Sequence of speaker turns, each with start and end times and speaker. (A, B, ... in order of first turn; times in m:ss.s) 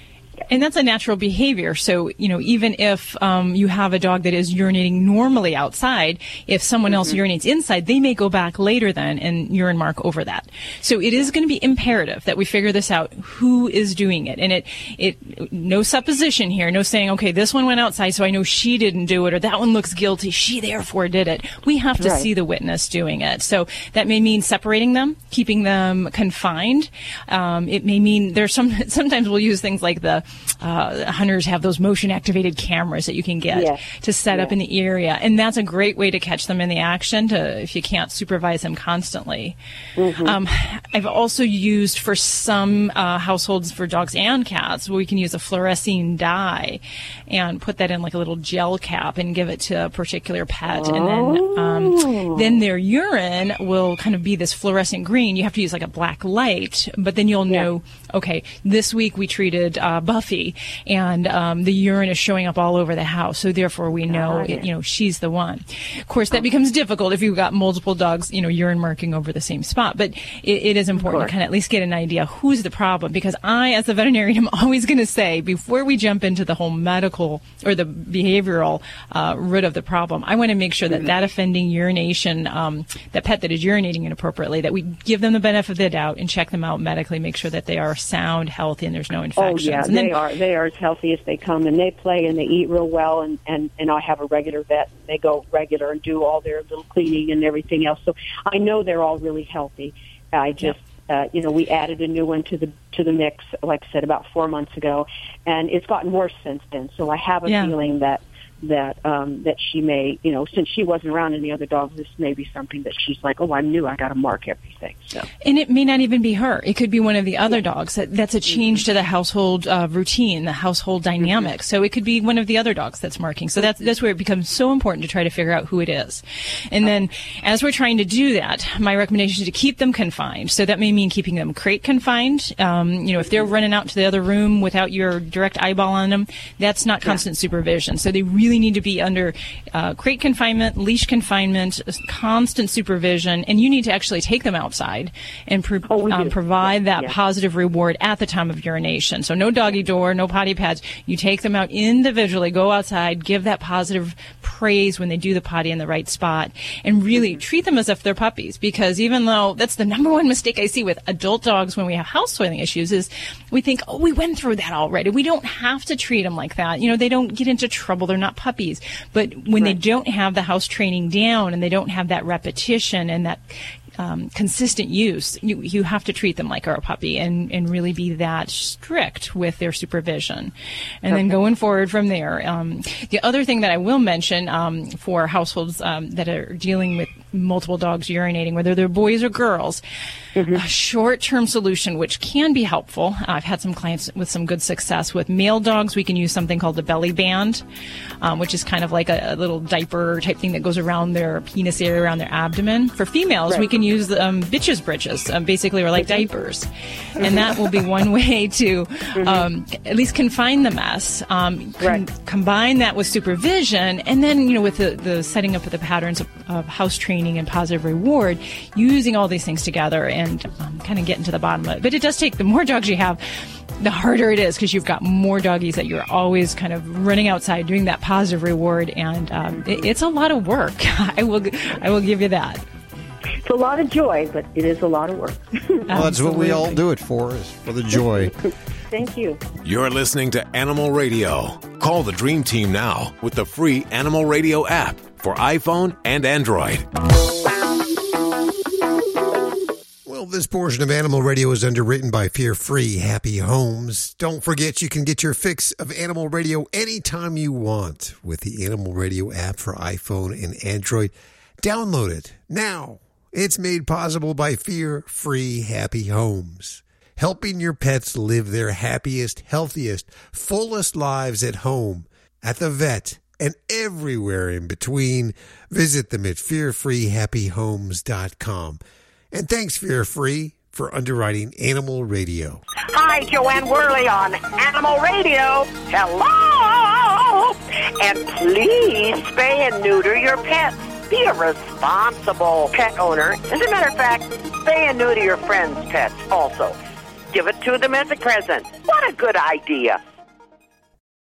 0:00.5-0:39.6 A
0:06.9-0:07.2 B
0:22.0-0:22.3 B
0:33.5-0:34.6 B
0:40.0-0:40.4 B
0:40.2-1:30.2 A
0:50.6-0:52.6 B
1:04.0-1:04.7 B
1:10.9-1:11.3 B
1:29.4-1:55.2 B
1:47.4-1:47.7 A
1:55.4-3:00.5 A
1:58.5-1:58.8 B
2:01.2-2:01.5 B
2:03.6-2:03.9 B
2:25.9-2:27.2 B
2:37.1-2:37.4 B
2:49.5-2:49.8 B
3:01.0-3:09.8 A
3:01.1-3:01.4 B
3:10.4-3:10.6 B
3:10.5-3:17.6 A
3:18.2-3:26.7 A
3:23.5-3:23.8 B
3:25.9-3:26.4 B
3:27.2-3:43.2 A
3:27.2-3:27.6 B
3:29.1-3:29.5 B
3:31.8-3:32.0 B
3:43.8-3:52.6 A
3:53.4-3:55.8 B
3:55.9-3:56.8 A
3:55.9-3:58.3 C
3:57.9-3:58.3 B
3:58.9-3:59.4 B
3:59.6-4:06.8 D
4:10.0-4:38.8 C
4:39.3-4:42.6 C
4:42.9-4:56.8 E
4:57.3-5:00.0 E